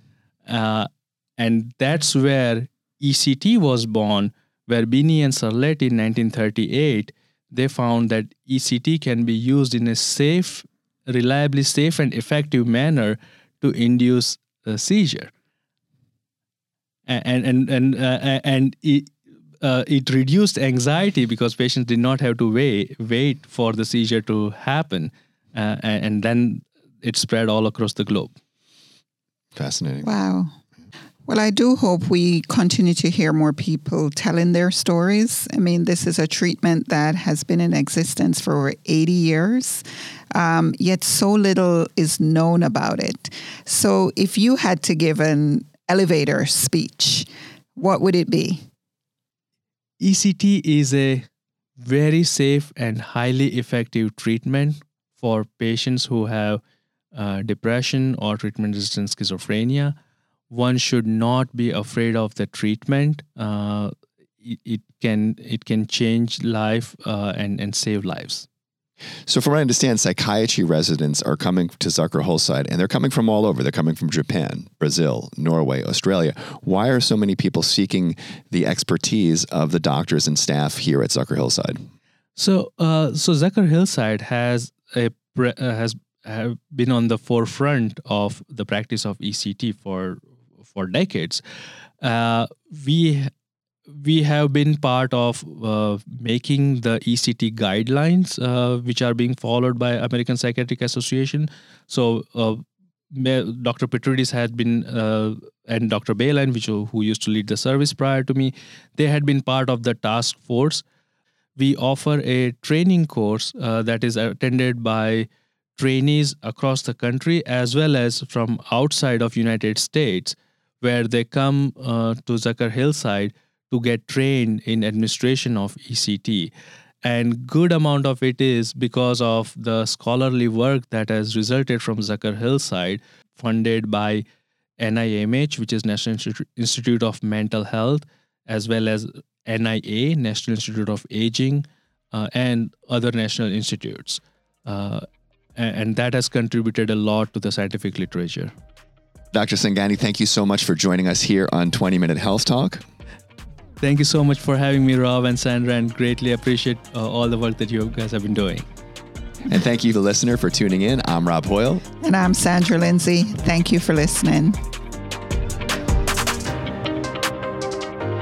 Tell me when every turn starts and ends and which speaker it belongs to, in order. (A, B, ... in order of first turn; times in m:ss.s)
0:00.5-0:15.3 A
0:17.1-0:28.4 A
0:29.6-0:30.1 B
0:30.0-0:30.5 C
0:31.3-0:48.6 C
0:50.0-0:51.3 A
0:51.8-0:56.6 A
0:57.1-1:00.0 A
1:00.5-1:08.5 A
1:09.3-1:21.8 B
1:22.4-1:31.4 A
1:32.0-1:33.3 A
1:33.9-1:50.8 A
1:51.6-2:06.5 A
2:07.0-2:14.2 A
2:14.8-2:25.0 A
2:25.6-2:28.5 A
2:29.3-2:32.8 B
2:33.8-2:38.7 A
2:39.5-2:41.8 B
2:42.0-2:44.6 C